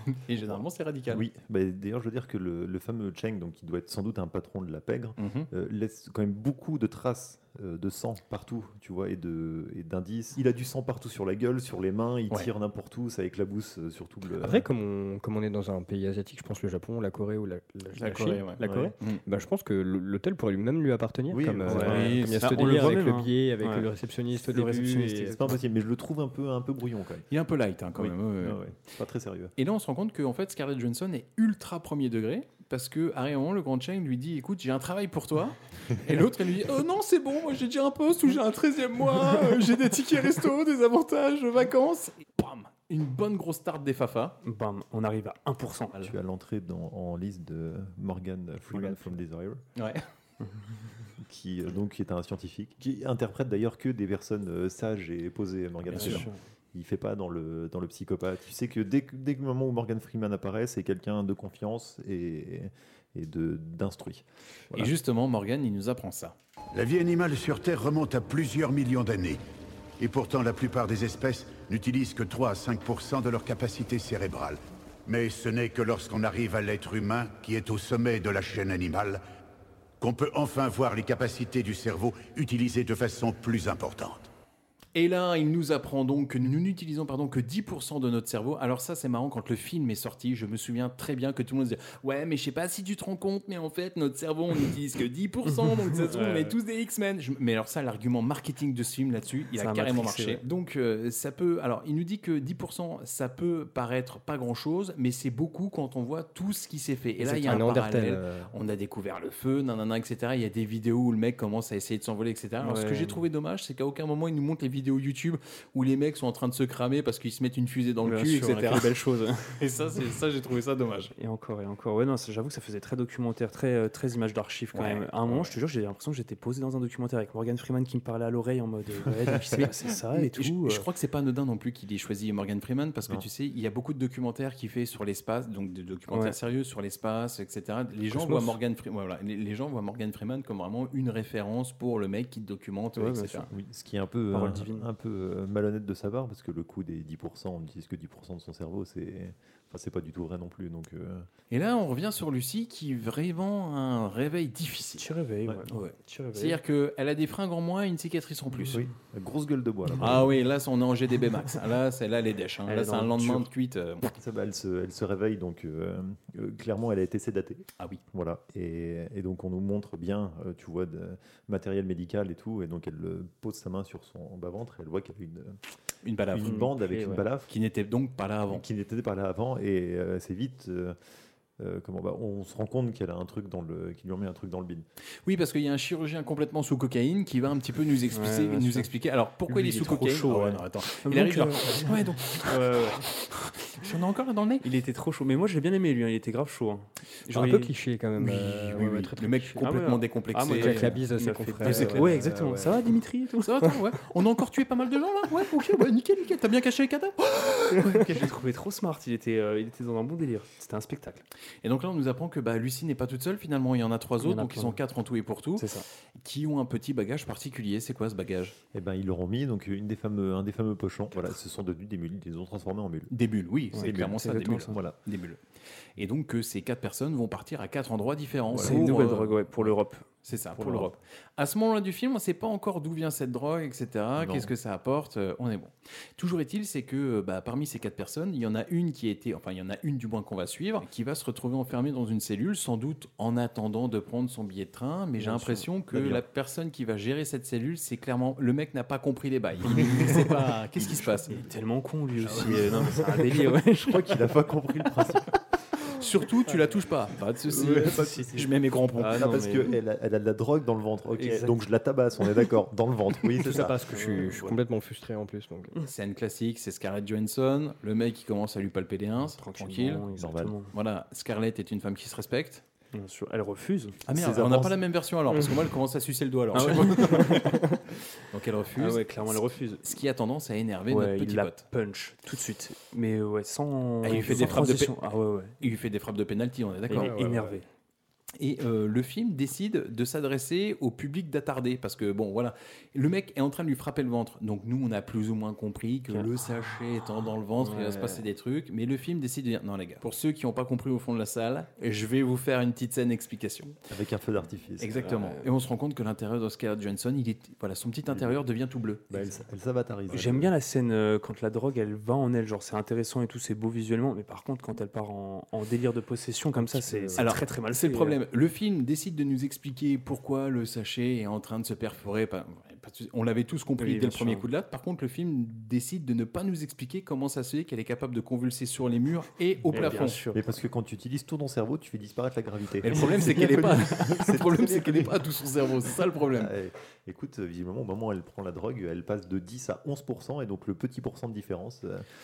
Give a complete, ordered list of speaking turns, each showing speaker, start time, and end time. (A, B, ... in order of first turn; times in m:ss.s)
0:00.1-0:01.2 A
0:00.4-0:14.6 B
0:05.2-0:05.5 A
0:14.4-0:25.5 C
0:18.0-0:19.2 A
0:18.6-0:18.9 B
0:21.3-0:22.3 B
0:21.7-0:23.9 D
0:21.9-0:22.6 A
0:24.5-0:25.6 D
0:25.3-0:27.3 B
0:27.3-0:28.6 A
0:28.0-0:29.5 B
0:29.6-0:44.4 A
0:44.4-0:46.0 D
0:46.0-0:49.6 B
0:49.8-0:50.0 A
0:51.2-1:04.9 B
0:55.9-0:56.3 A
0:56.0-0:56.4 D
1:04.7-1:06.4 A
1:06.7-1:09.4 E
1:10.0-1:19.2 E
1:20.0-1:24.3 E
1:25.0-1:58.9 A
1:35.9-1:36.6 D
1:39.6-1:40.4 D
1:47.2-1:48.5 C
1:52.6-1:53.2 D
1:58.0-1:59.6 D
1:59.6-2:01.1 A
2:01.2-2:10.8 D
2:04.8-2:05.5 A
2:09.3-2:09.7 B
2:10.1-2:23.5 A
2:16.1-2:16.4 D
2:18.2-2:18.6 C
2:23.0-2:23.5 D
2:23.5-2:31.3 B
2:24.3-2:24.9 D
2:31.5-2:35.1 A
2:35.0-2:36.6 D
2:35.7-2:38.9 A
2:38.7-2:40.4 B
2:40.0-2:44.1 A
2:42.7-2:43.5 D
2:44.1-2:55.6 B
2:56.0-2:56.7 A
2:56.3-2:57.5 B
2:56.4-2:57.2 D
2:57.5-2:58.6 A
2:58.5-3:01.0 B
3:01.6-3:04.8 B
3:05.2-3:14.6 A
3:08.1-3:08.9 D
3:09.5-3:13.0 D
3:14.6-3:17.7 D
3:17.3-3:19.7 C
3:18.2-3:21.0 A
3:19.6-3:23.5 D
3:20.5-3:22.9 C
3:21.6-3:22.2 A
3:23.4-3:28.3 A
3:27.8-3:31.2 D
3:31.6-3:38.6 A
3:34.2-3:34.8 D
3:35.6-3:35.8 D
3:38.7-3:43.1 B
3:43.1-3:45.4 A
3:43.7-3:44.8 D
3:43.8-3:45.0 B
3:46.0-3:49.7 A
3:48.5-3:48.9 B
3:48.6-3:50.1 D
3:50.2-4:11.4 A
3:50.6-3:50.9 B
3:50.6-3:50.9 D
3:54.2-3:54.5 B
4:05.2-4:05.7 D
4:05.9-4:06.2 B
4:09.7-4:10.3 D
4:10.8-4:11.2 B
4:11.3-4:14.1 D
4:12.3-4:12.8 B
4:13.8-4:15.3 B
4:15.9-4:19.4 A
4:17.4-4:18.5 B
4:19.0-4:19.7 D
4:19.1-4:23.9 B
4:21.2-4:21.5 D
4:23.4-4:25.8 C
4:23.9-4:24.6 D
4:25.9-4:30.0 A
4:29.4-4:30.7 D
4:30.1-4:30.6 B
4:30.7-4:32.6 A
4:32.9-4:34.0 D
4:34.1-4:41.6 A
4:34.1-4:34.8 B
4:36.5-4:37.6 D
4:38.8-4:40.0 D
4:40.9-4:45.6 D
4:44.0-4:45.0 A
4:45.6-4:47.3 A
4:46.9-4:47.7 D
4:47.0-4:47.6 C
4:48.4-5:03.8 A
4:57.6-4:58.2 D
5:03.9-5:05.2 B
5:04.8-5:09.2 A
5:05.0-5:05.4 D
5:08.1-5:08.4 B
5:09.1-5:10.5 B
5:10.1-5:18.2 D
5:16.6-5:17.3 C
5:17.2-5:30.2 A
5:23.8-5:24.5 D
5:29.7-5:30.4 D
5:29.7-5:35.3 B
5:32.8-5:36.5 A
5:35.8-5:42.1 B